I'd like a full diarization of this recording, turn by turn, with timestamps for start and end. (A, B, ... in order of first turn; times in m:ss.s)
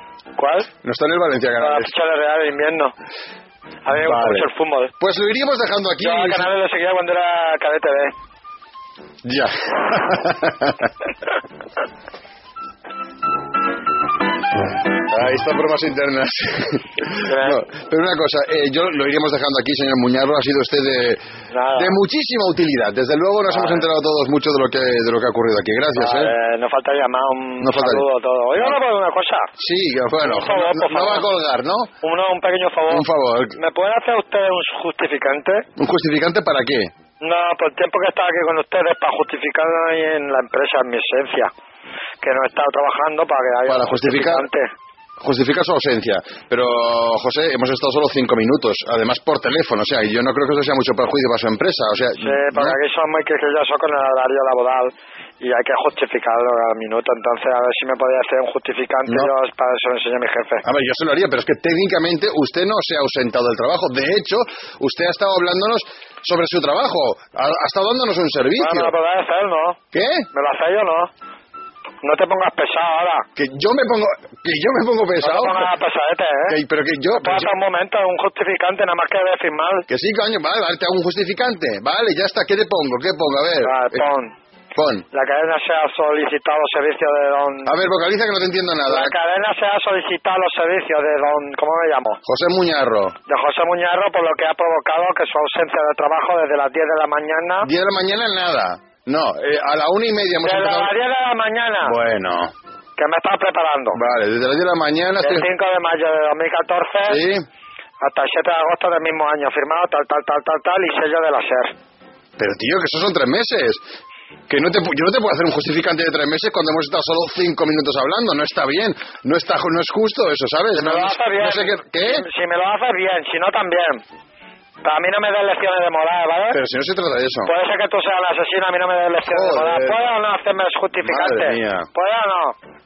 0:00.4-0:00.7 A
0:00.8-0:01.9 B
0:01.6-0:02.9 A
0:03.8-0:04.9 A
0:04.0-0:04.5 B
0:05.0-0:06.5 B
0:06.0-0:08.1 A
0:09.2-0:10.9 B
0:15.1-0:21.2 B
0:17.3-0:17.6 A
0:21.5-0:22.0 A
0:21.8-0:26.3 B
0:23.5-0:23.8 A
0:26.0-0:29.5 A
0:27.6-0:28.8 B
0:29.6-0:31.9 B
0:30.2-0:31.3 A
0:32.0-0:35.7 A
0:32.9-0:33.6 B
0:35.8-0:36.9 B
0:37.2-0:41.5 A
0:42.2-0:44.7 A
0:43.7-0:44.5 B
0:45.2-0:52.8 B
0:52.2-1:00.6 A
1:00.6-1:08.9 B
1:08.6-1:09.8 A
1:09.9-1:10.3 B
1:10.3-1:11.1 A
1:12.0-1:13.3 A
1:13.4-1:15.7 B
1:15.2-1:16.6 A
1:16.5-1:17.5 B
1:17.2-1:19.9 A
1:19.9-1:24.0 B
1:23.6-1:24.3 A
1:24.8-1:25.1 B
1:25.1-1:27.7 A
1:27.6-1:29.1 B
1:28.9-1:32.2 A
1:32.3-1:33.2 B
1:33.3-1:37.7 A
1:37.6-1:40.9 B
1:40.4-1:42.0 A
1:41.8-1:42.5 B
1:43.0-1:44.0 A
1:43.9-1:45.5 B
1:45.2-1:47.2 A
1:47.0-1:47.5 B
1:48.0-1:51.7 A
1:52.4-1:53.8 B
1:54.5-2:02.2 B
2:00.7-2:04.0 A
2:04.8-2:06.6 A
2:06.5-2:07.5 B
2:07.5-2:12.6 A
2:09.3-2:10.1 B
2:11.0-2:11.9 B